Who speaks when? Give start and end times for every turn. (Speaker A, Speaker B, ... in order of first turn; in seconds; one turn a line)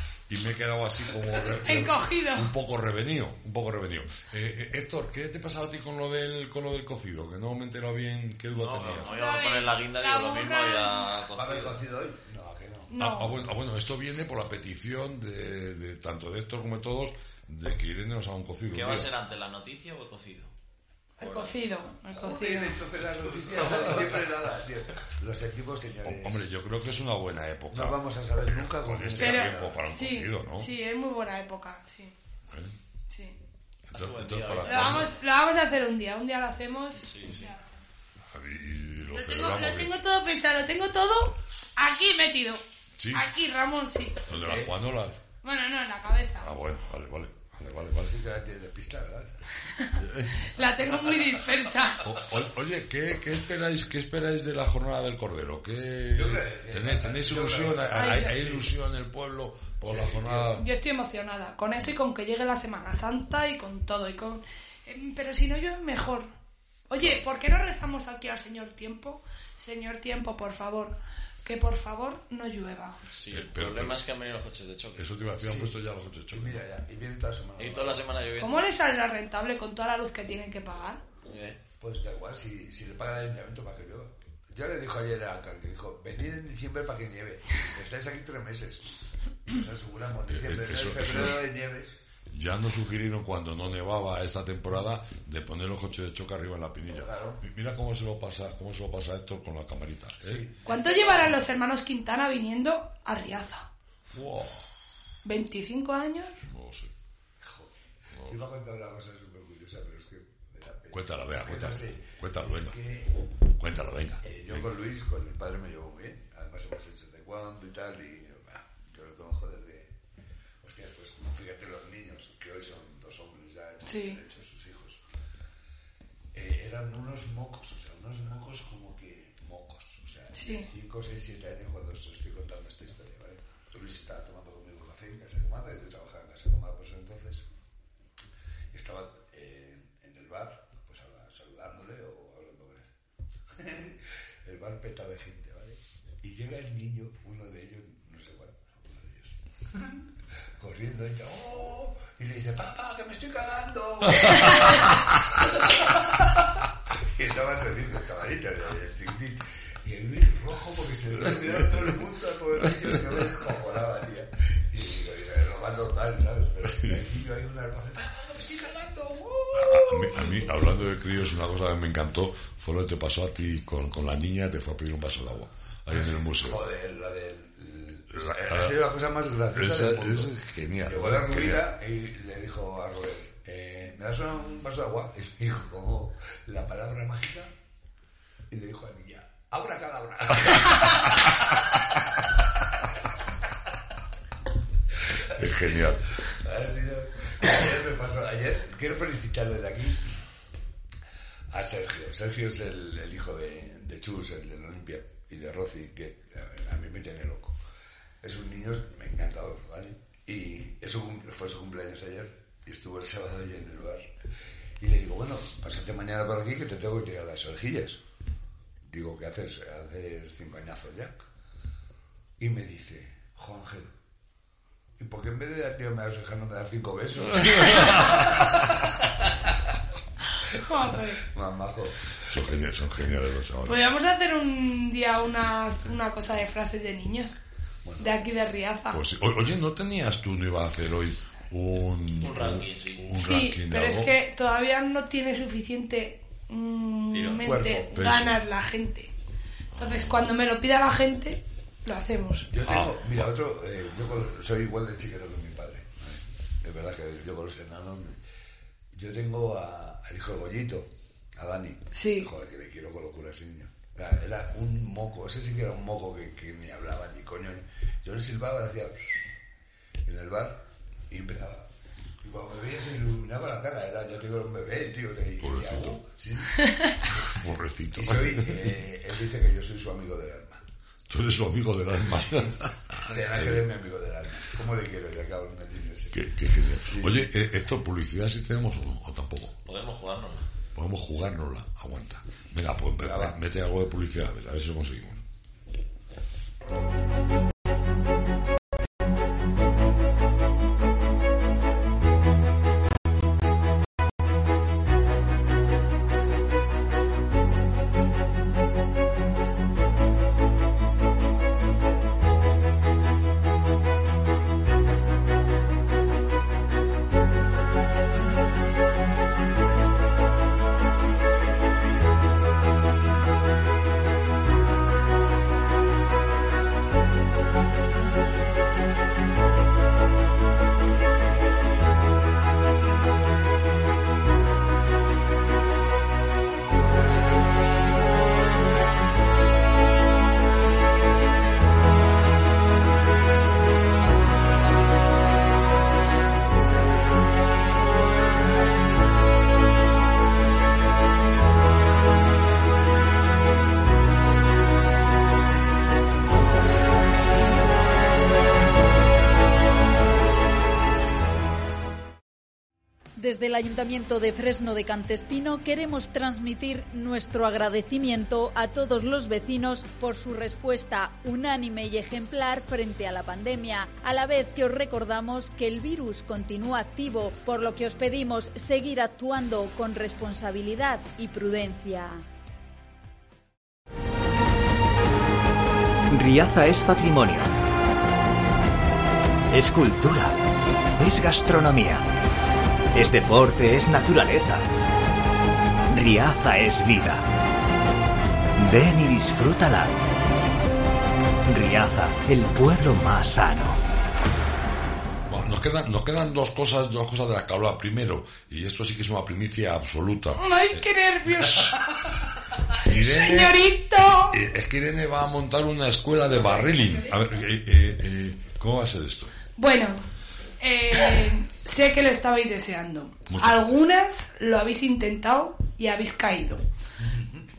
Speaker A: 0.3-9.1
Speaker B: 1.6-2.5
Speaker C: 8.6-11.8
Speaker B: 9.0-11.1
Speaker D: 11.3-12.9
Speaker B: 12.9-13.4
Speaker A: 12.9-19.1
Speaker C: 18.7-20.5
Speaker B: 21.2-22.8
Speaker C: 21.2-21.5
Speaker D: 22.1-26.4
Speaker A: 23.0-24.2
Speaker A: 26.0-30.7
Speaker D: 27.7-29.8
Speaker B: 29.2-32.1
Speaker A: 32.5-32.8
Speaker B: 33.1-33.4
Speaker A: 33.9-35.1
Speaker C: 33.9-35.1
Speaker B: 34.6-37.7
Speaker C: 37.0-37.5
Speaker A: 38.3-39.9
Speaker B: 39.1-44.6
Speaker A: 43.0-43.3
Speaker A: 44.2-45.2
Speaker D: 44.4-44.7
Speaker B: 45.4-46.5
Speaker A: 46.4-48.2
Speaker D: 48.0-49.4
Speaker B: 49.8-52.1
Speaker A: 50.0-50.5
Speaker A: 52.0-60.6
Speaker D: 56.1-58.7
Speaker B: 57.9-58.3
Speaker D: 59.9-60.5
Speaker B: 60.5-66.3
Speaker B: 66.9-73.0
Speaker C: 73.1-75.1
Speaker A: 73.3-74.0
Speaker A: 75.0-76.6
Speaker D: 75.4-75.8
Speaker D: 76.3-78.1
Speaker C: 77.6-78.7
Speaker B: 78.4-81.0
Speaker C: 81.2-81.6
Speaker D: 81.8-92.0
Speaker A: 90.3-91.5
Speaker A: 92.3-100.4
Speaker D: 96.9-97.4
Speaker D: 100.2-101.1
Speaker B: 100.7-103.7
Speaker A: 104.1-104.7
Speaker B: 105.2-106.4
Speaker A: 106.4-106.9
Speaker D: 107.4-113.1
Speaker A: 108.1-108.4
Speaker A: 110.9-112.8
Speaker A: 113.5-114.7
Speaker D: 114.2-119.9
Speaker D: 120.6-125.0
Speaker B: 123.8-124.2
Speaker D: 126.3-137.4
Speaker B: 130.3-130.7
Speaker D: 138.7-142.9
Speaker D: 143.5-150.0
Speaker D: 150.6-170.6
Speaker A: 154.2-154.9
Speaker A: 161.2-161.9
Speaker A: 169.5-176.6
Speaker D: 176.3-180.3
Speaker A: 178.1-178.8
Speaker A: 179.5-181.7
Speaker D: 180.8-187.5
Speaker D: 188.5-192.0
Speaker D: 195.0-200.1
Speaker A: 195.2-196.1
Speaker D: 201.5-207.6
Speaker D: 208.2-214.1
Speaker D: 214.8-218.0
Speaker D: 218.8-221.2
Speaker D: 222.4-223.9
Speaker D: 225.0-229.6
Speaker A: 227.3-228.7
Speaker B: 230.5-231.2
Speaker D: 231.2-232.2
Speaker A: 232.2-233.8
Speaker B: 233.6-237.4
Speaker D: 237.8-238.2
Speaker B: 238.0-239.0
Speaker A: 238.9-244.1
Speaker C: 242.2-243.1
Speaker B: 243.1-249.1
Speaker C: 247.1-247.5
Speaker D: 247.4-247.9
Speaker A: 247.9-248.4
Speaker A: 249.7-250.3
Speaker B: 249.8-252.5
Speaker D: 252.5-258.2
Speaker A: 252.6-253.2
Speaker D: 258.9-269.2
Speaker B: 261.9-262.3
Speaker D: 270.0-271.7
Speaker D: 272.2-276.7
Speaker A: 275.4-276.0
Speaker B: 276.6-276.9
Speaker A: 277.1-278.9
Speaker D: 277.9-280.6
Speaker A: 281.1-283.6
Speaker D: 282.4-286.2
Speaker A: 286.1-289.6
Speaker D: 286.8-287.2
Speaker C: 289.6-290.4
Speaker A: 290.7-295.2
Speaker D: 293.0-293.3
Speaker E: 363.2-382.2
Speaker F: 386.1-387.5
Speaker F: 389.5-390.4
Speaker F: 391.0-392.1
Speaker F: 392.9-394.7
Speaker F: 395.9-397.2
Speaker F: 398.6-400.0
Speaker F: 401.4-403.8
Speaker A: 405.3-410.8
Speaker B: 410.4-411.8
Speaker A: 412.8-413.6
Speaker B: 412.8-414.4
Speaker A: 414.2-419.3
Speaker B: 419.6-420.0
Speaker B: 420.6-426.6
Speaker A: 423.3-423.7